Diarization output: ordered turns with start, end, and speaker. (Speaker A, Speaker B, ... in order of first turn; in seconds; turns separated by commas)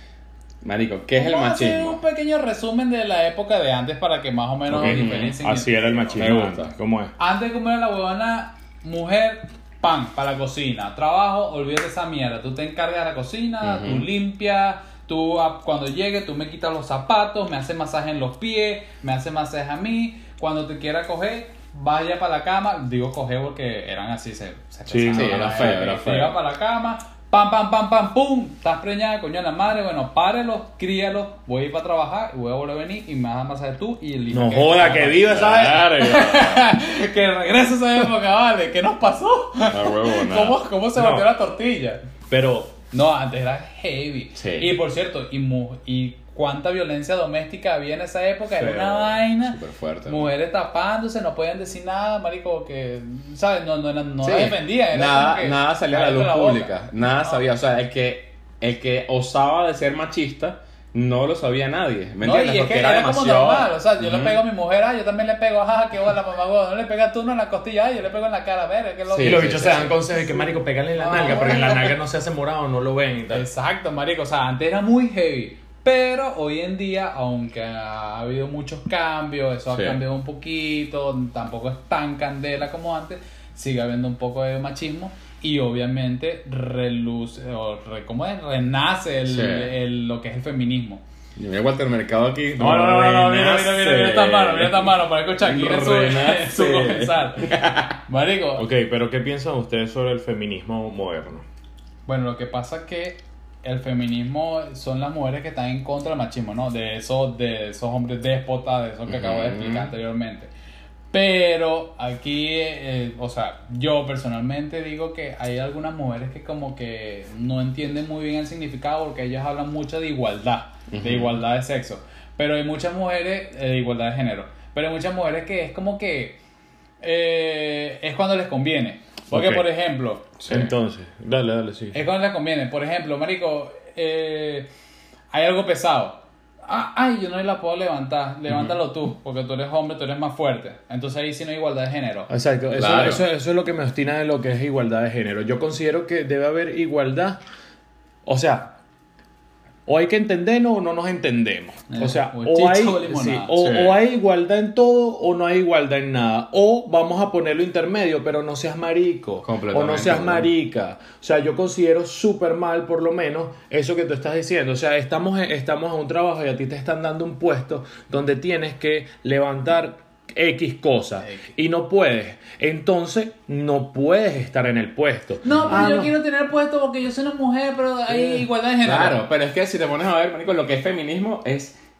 Speaker A: 0.6-2.0, Speaker B: 1.1-6.4, Speaker A: 4.7-5.4, Speaker C: 4.7-7.1, Speaker A: 6.2-6.7, Speaker B: 7.2-42.0, Speaker A: 13.6-14.1, Speaker C: 24.9-25.9, Speaker A: 25.1-26.4, Speaker C: 34.3-36.2, Speaker A: 35.2-36.6, Speaker A: 39.7-40.6, Speaker C: 41.0-41.3, Speaker C: 42.3-42.7, Speaker B: 42.9-57.4, Speaker A: 44.4-44.7, Speaker A: 48.6-50.3, Speaker A: 54.2-64.4, Speaker B: 62.2-71.9, Speaker A: 69.1-70.0, Speaker C: 69.2-73.5, Speaker B: 73.3-91.0, Speaker A: 79.7-80.0, Speaker A: 89.3-89.7, Speaker A: 91.4-97.9, Speaker C: 92.6-93.0, Speaker B: 92.6-98.7, Speaker C: 98.6-101.4, Speaker B: 102.1-110.5, Speaker A: 109.1-109.9, Speaker B: 111.1-126.4, Speaker A: 120.9-121.3, Speaker B: 127.0-130.3, Speaker C: 129.3-129.7, Speaker A: 130.4-130.7, Speaker C: 130.5-132.0, Speaker B: 131.9-134.7, Speaker B: 135.3-142.3, Speaker A: 138.5-138.8, Speaker C: 142.3-147.4, Speaker A: 142.7-143.2, Speaker C: 148.2-148.7, Speaker C: 149.8-176.1, Speaker B: 151.9-153.6, Speaker A: 153.5-154.0, Speaker A: 159.4-160.5, Speaker B: 175.4-179.2, Speaker A: 175.5-175.8, Speaker C: 178.1-178.4, Speaker A: 178.8-181.8